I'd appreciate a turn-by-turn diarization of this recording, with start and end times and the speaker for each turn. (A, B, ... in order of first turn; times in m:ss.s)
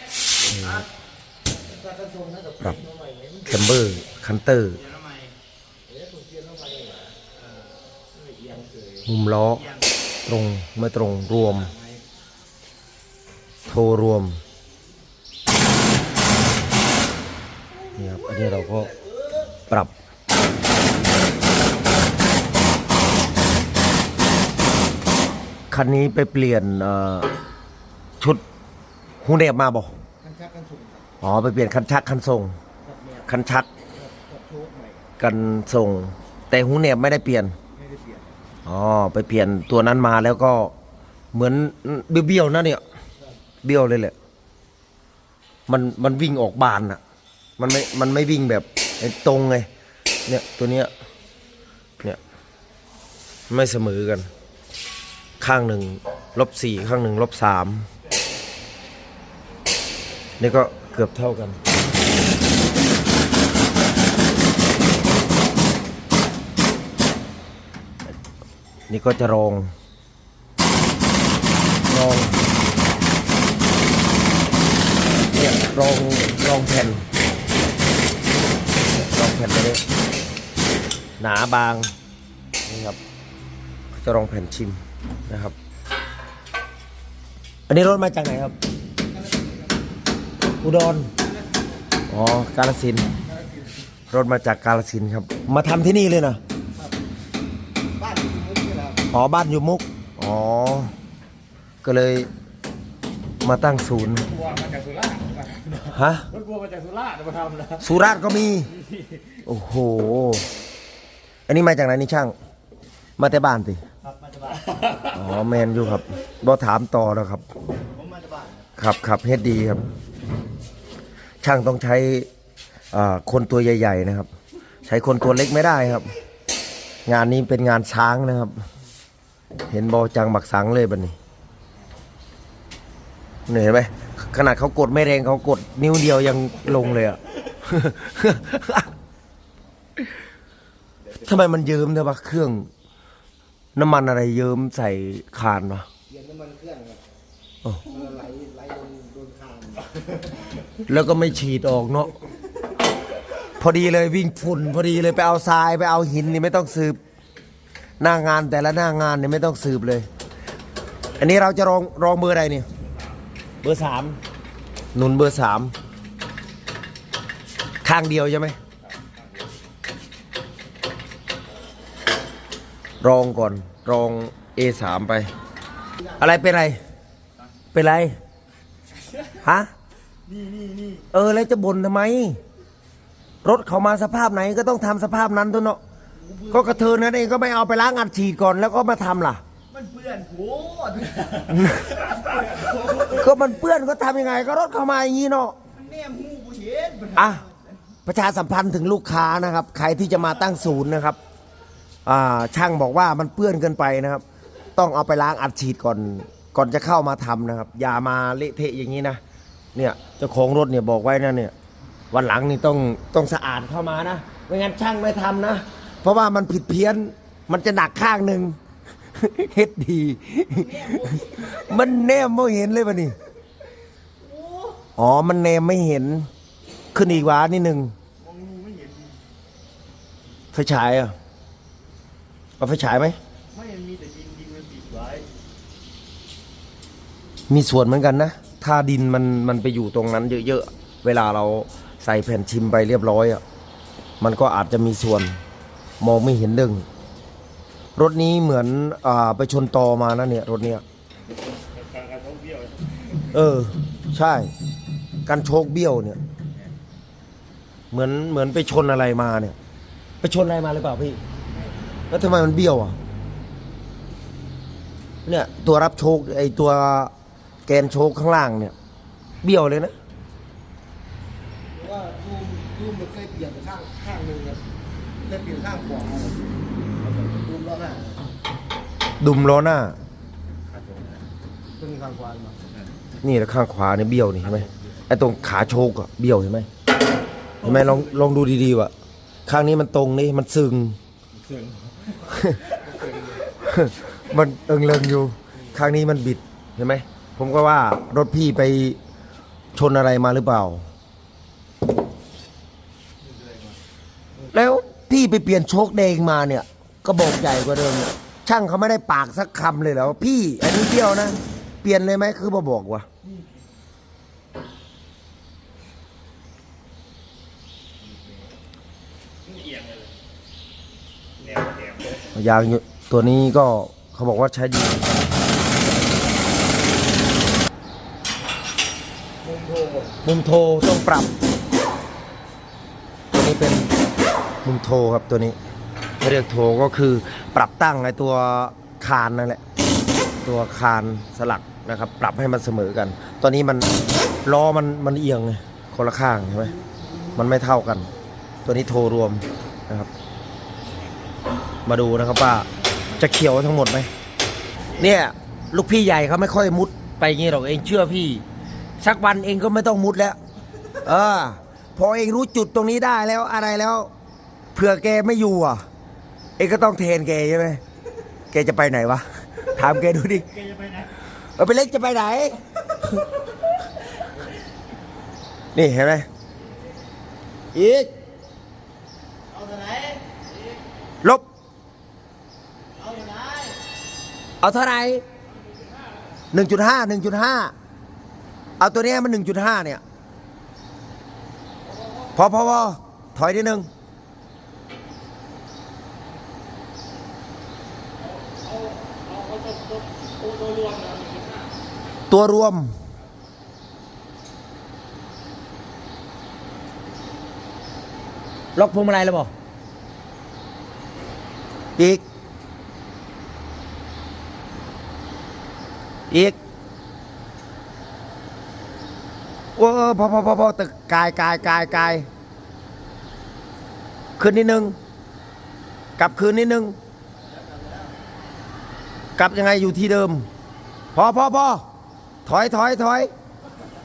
0:00.4-0:00.8 A
0:01.7-0:03.5 B
0:03.4-0:04.8 A
0:05.9-0:07.0 B
0:09.0-0:09.7 A
0:10.3-0:11.7 A
0:13.6-0:14.4 A
0:18.0-0:18.9 A
0:25.7-0:27.3 A
0:29.2-0:29.9 A
0:30.2-0:31.0 B
0:31.2-0:32.6 A
0:33.3-0:33.7 A
0:34.0-0:35.0 B
0:35.2-0:37.5 A
0:38.6-0:40.7 A
0:41.3-0:42.8 A
0:43.6-0:44.1 A
0:45.7-0:47.0 A
0:47.6-0:49.7 A
0:50.3-0:50.9 A
0:53.5-0:54.3 A
0:55.4-0:57.9 A
1:00.4-1:01.6 A
1:08.9-1:09.7 A
1:11.9-1:12.4 A
1:15.3-1:17.0 A
1:18.9-1:19.8 A
1:21.2-1:21.9 A
1:22.6-1:23.0 A
1:23.9-1:25.5 A
1:27.7-1:28.5 A
1:29.1-1:29.7 B
1:30.6-1:31.1 A
1:32.1-1:33.1 A
1:34.1-1:36.4 A
1:38.0-1:39.0 B
1:39.1-1:40.9 A
1:41.8-1:42.3 A
1:43.4-1:44.3 A
1:44.4-1:45.8 B
1:45.9-1:46.3 A
1:46.4-1:47.7 B
1:47.8-1:48.8 A
1:49.4-1:50.5 A
1:51.5-1:52.3 A
1:53.2-1:53.8 A
1:54.3-1:54.9 B
1:55.1-1:57.4 A
1:58.0-1:58.5 B
1:58.8-1:59.8 A
2:01.4-2:02.3 A
2:02.9-2:04.3 A
2:04.8-2:06.1 A
2:07.0-2:08.6 A
2:09.7-2:11.1 A
2:13.5-2:18.9 A
2:21.2-2:22.7 A
2:23.8-2:25.9 A
2:26.1-2:27.0 B
2:27.9-2:29.9 B
2:30.8-2:32.2 A
2:33.6-2:37.0 A
2:38.0-2:40.1 A
2:41.2-2:42.7 A
2:43.6-2:44.2 A
2:44.9-2:45.7 A
2:47.8-2:48.6 A
2:53.0-2:55.3 A
2:56.2-2:56.8 A
2:57.7-2:58.2 A
2:59.4-2:59.7 A
3:00.3-3:01.0 B
3:01.1-3:02.4 A
3:03.4-3:05.8 A
3:06.2-3:06.7 B
3:06.5-3:09.4 A
3:09.7-3:11.8 B
3:11.5-3:12.0 A
3:13.1-3:15.6 A
3:15.7-3:17.5 B
3:17.2-3:17.4 A
3:18.0-3:21.2 A
3:22.0-3:24.2 A
3:24.8-3:29.2 A
3:29.7-3:31.5 A
3:32.1-3:38.6 A
3:39.1-3:43.1 A
3:40.6-3:41.4 B
3:44.2-3:44.8 B
3:45.0-3:46.3 A
3:46.9-3:47.9 A
3:48.2-3:49.2 B
3:50.5-3:51.1 A
3:52.6-3:53.2 A
3:53.5-3:55.3 B
3:57.5-4:03.4 A
4:04.2-4:05.4 A
4:06.0-4:06.8 A
4:08.0-4:10.8 A
4:12.1-4:12.7 B
4:13.3-4:14.5 A
4:15.2-4:16.2 A
4:17.9-4:19.6 A
4:20.2-4:21.2 A
4:22.1-4:23.0 A
4:25.2-4:27.1 A
4:27.7-4:28.7 A
4:29.4-4:29.9 A
4:31.7-4:34.6 B
4:35.2-4:38.2 B
4:39.2-4:40.0 A
4:41.8-4:42.6 B
4:43.2-4:46.7 A
4:47.6-4:48.9 A
4:49.4-4:51.0 A
4:52.3-4:52.6 A
4:52.9-4:53.4 B
4:53.6-4:59.0 A
4:59.7-5:00.8 A
5:04.5-5:13.1 A
5:21.5-5:22.0 B
5:22.3-5:25.1 A
5:29.4-5:30.2 B
5:30.2-5:31.3 A
5:33.3-5:33.9 A
5:34.6-5:35.6 A
5:36.2-5:39.6 A
5:40.4-5:43.9 A
5:44.4-5:46.7 A
5:47.3-5:48.1 A
5:48.6-5:50.1 A
5:51.8-5:54.1 A
5:55.0-5:58.4 A
5:59.0-6:00.4 A
6:01.0-6:04.1 A
6:04.7-6:05.8 A
6:06.6-6:07.8 A
6:08.5-6:10.5 A
6:10.6-6:11.1 B
6:11.6-6:13.2 A
6:15.7-6:16.3 A
6:17.7-6:18.1 A
6:19.5-6:20.2 B
6:23.0-6:23.8 B
6:24.6-6:25.2 A
6:26.5-6:27.7 A
6:28.8-6:30.0 A
6:32.3-6:33.9 A
6:39.1-6:41.7 B
6:42.3-6:42.9 A
6:48.8-6:49.5 A
6:52.0-6:52.2 A
6:56.3-6:56.6 A
6:59.8-7:02.3 A
7:04.4-7:05.0 A
7:06.2-7:07.0 A
7:09.4-7:10.5 A
7:11.1-7:11.8 A
7:12.4-7:13.3 A